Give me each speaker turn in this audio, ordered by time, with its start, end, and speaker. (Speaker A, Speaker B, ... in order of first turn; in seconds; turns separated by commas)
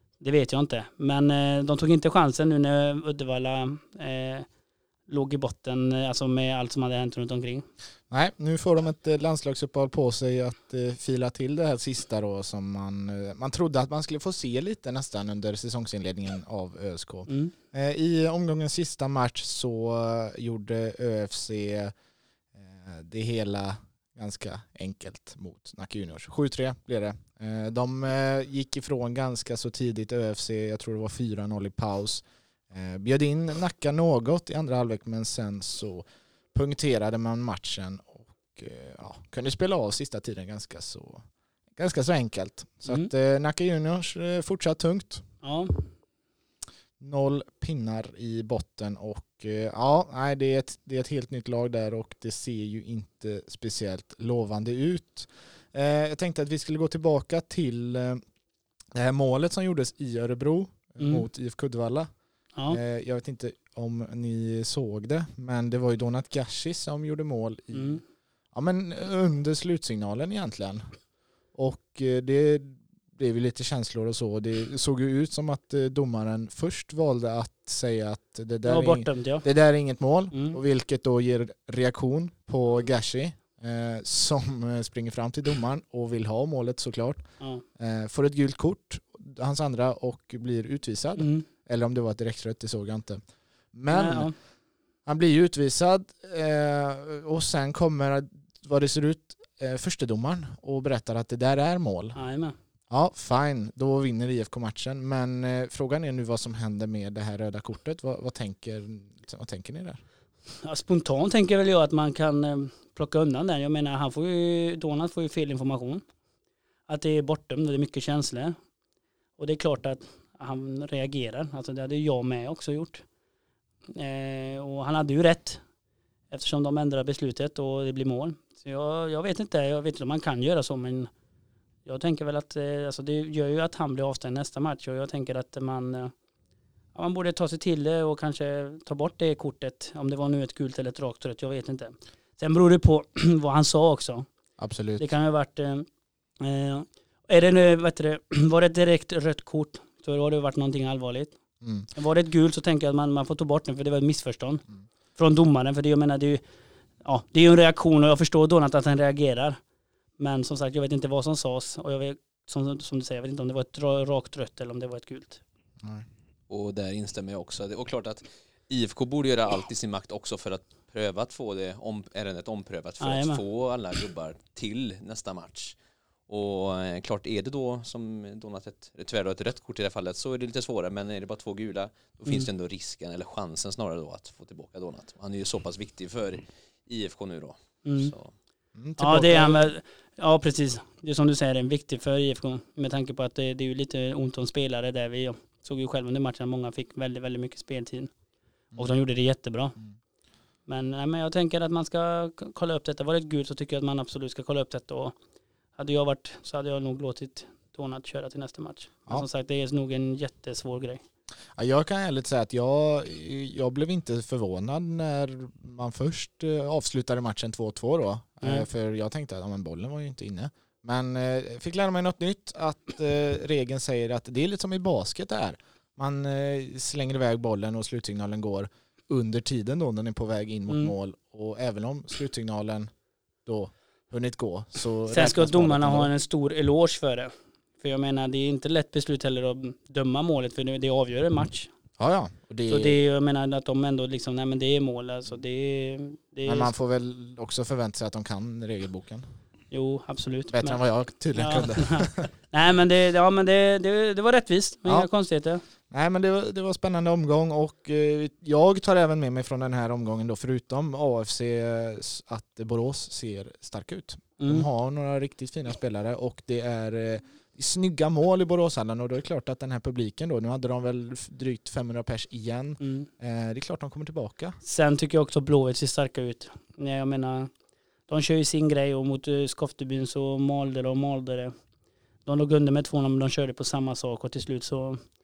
Speaker A: 0.2-4.5, Speaker A: 5.1-7.7, Speaker B: 8.1-21.9, Speaker A: 17.3-17.5, Speaker B: 22.6-41.2, Speaker B: 41.8-45.2, Speaker A: 45.4-45.9, Speaker B: 47.0-58.2, Speaker B: 58.9-62.1, Speaker B: 62.7-68.0, Speaker A: 67.7-68.0, Speaker B: 68.5-70.9, Speaker B: 71.5-87.2, Speaker A: 78.7-79.5, Speaker A: 80.3-80.6, Speaker B: 87.8-93.2, Speaker A: 91.2-91.5, Speaker B: 93.7-94.3, Speaker A: 93.9-94.3, Speaker B: 95.1-102.2, Speaker A: 102.2-102.6, Speaker B: 102.9-110.0, Speaker A: 110.6-116.0, Speaker A: 116.9-118.6, Speaker A: 119.4-123.0, Speaker A: 123.9-125.6, Speaker A: 126.3-131.1, Speaker A: 131.9-136.1, Speaker A: 136.9-144.3, Speaker B: 144.6-145.1, Speaker A: 145.0-145.9, Speaker A: 146.4-151.3, Speaker B: 151.6-151.9, Speaker A: 151.9-154.6, Speaker A: 155.2-156.4, Speaker A: 157.0-159.6, Speaker A: 160.2-165.4, Speaker C: 166.5-175.8, Speaker A: 173.0-173.4, Speaker C: 176.3-188.3, Speaker A: 187.8-188.1, Speaker B: 188.8-189.7, Speaker A: 189.0-198.1, Speaker A: 198.8-199.8, Speaker A: 200.7-205.2, Speaker A: 205.8-211.0, Speaker B: 211.6-232.9, Speaker A: 230.7-230.9, Speaker B: 233.5-236.1, Speaker A: 235.1-241.7, Speaker B: 242.0-243.0, Speaker A: 242.7-246.7, Speaker B: 246.4-249.3, Speaker A: 249.7-250.8, Speaker B: 250.5-252.3, Speaker A: 251.4-255.6, Speaker B: 255.9-274.6, Speaker A: 264.4-264.7, Speaker A: 272.8-273.1, Speaker A: 274.6-277.5, Speaker A: 278.1-281.5, Speaker A: 282.3-285.0